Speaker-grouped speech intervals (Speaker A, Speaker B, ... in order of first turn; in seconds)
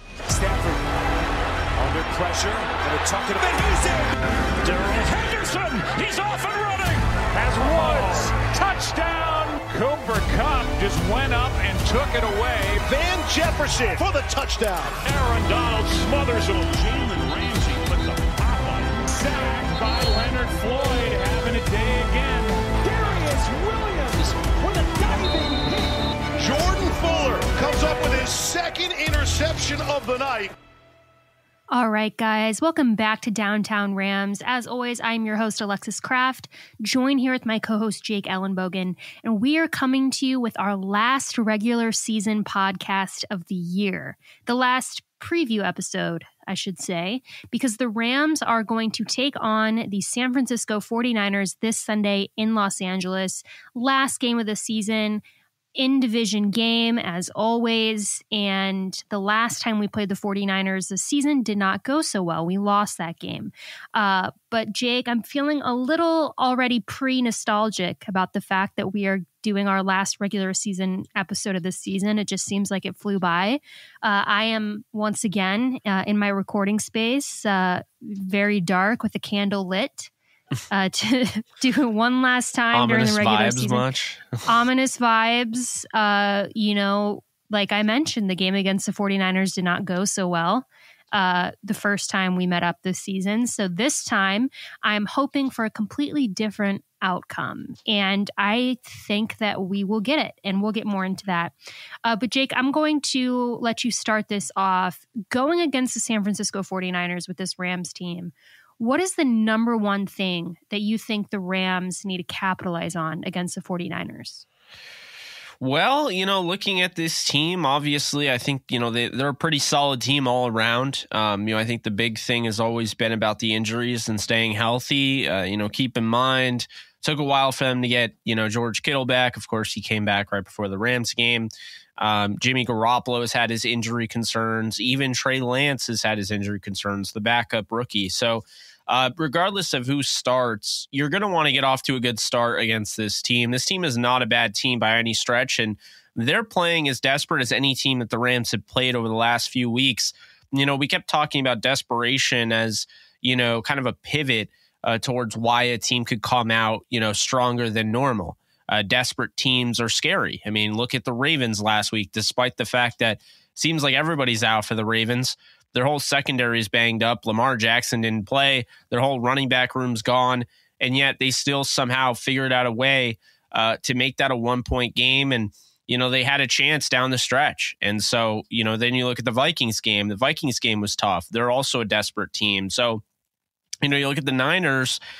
Speaker A: 0.3-0.9, 1.8-4.1, 4.6-12.8, 15.0-25.9
Speaker B: 7.6-8.2, 12.9-15.0, 26.4-30.5
Speaker C: 31.7-55.2, 55.8-80.1, 80.7-83.9, 84.5-101.5, 102.0-114.4
Speaker D: 82.7-84.4, 115.6-183.0, 183.8-185.0